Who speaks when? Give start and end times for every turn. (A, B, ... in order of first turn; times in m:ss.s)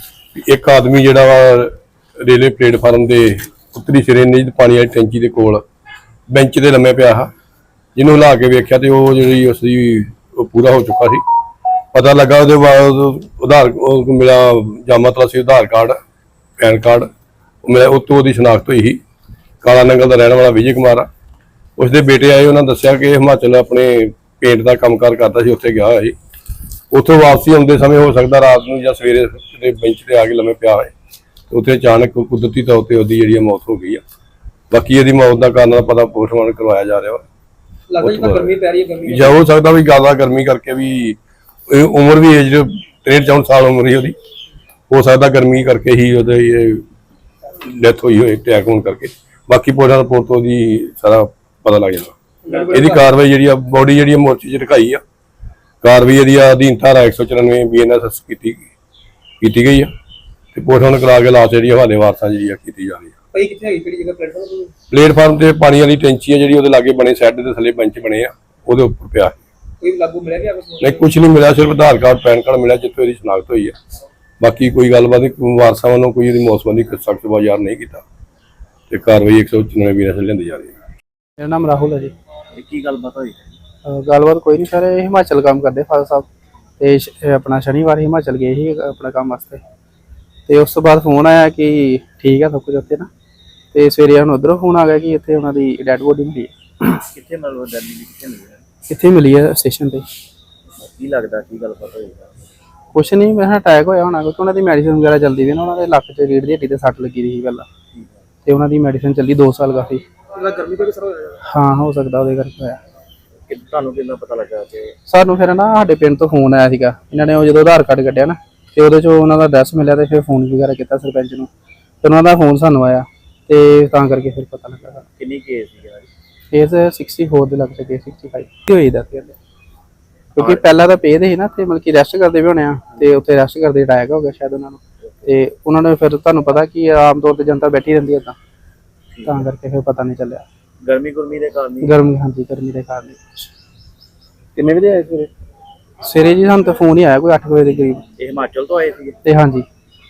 0:00.3-0:05.6 A
0:06.3-0:07.3 A
0:08.0-0:11.2 A
0:11.9-0:16.0 A
0:16.6-0:17.1 A
0:17.6-0:19.0 A
0:19.6-0:21.1 A
0:21.8-0:26.2 A
0:26.9-0:30.9 A
0:31.5-0:34.0 A
0:34.7-0:37.2 A
0:37.9-0:39.4 B
0:38.0-0:38.5 A
0:39.0-0:41.2 A
0:41.7-0:44.2 A
0:44.9-0:46.8 A
0:47.6-0:55.0 A
0:52.5-0:53.1 B
0:55.8-0:58.7 A
0:59.4-0:59.9 A
1:00.5-1:03.2 A
1:03.3-1:04.7 B
1:04.9-1:09.4 A
1:09.8-1:11.0 B
1:10.8-1:13.8 A
1:14.4-1:18.0 A
1:18.9-1:20.7 A
1:21.4-1:22.1 C
1:22.5-1:23.5 D
1:23.8-1:26.3 C
1:26.8-1:29.6 C
1:30.5-1:33.1 C
1:33.7-1:36.9 C
1:37.1-1:38.6 D
1:38.9-1:40.0 C
1:41.0-1:42.3 D
1:42.9-1:47.7 C
1:48.4-1:50.0 C
1:50.4-1:51.3 B
1:51.4-1:52.8 C
1:53.5-1:54.9 D
1:55.1-2:01.5 C
2:02.0-2:05.1 C
2:05.2-2:06.1 D
2:06.5-2:09.4 C
2:10.4-2:18.4 C
2:19.1-2:19.4 D
2:19.2-2:20.4 C
2:20.8-2:22.0 D
2:21.8-2:23.5 C
2:24.6-2:25.3 C
2:26.0-2:28.0 C
2:28.2-2:29.2 D
2:29.2-2:29.7 C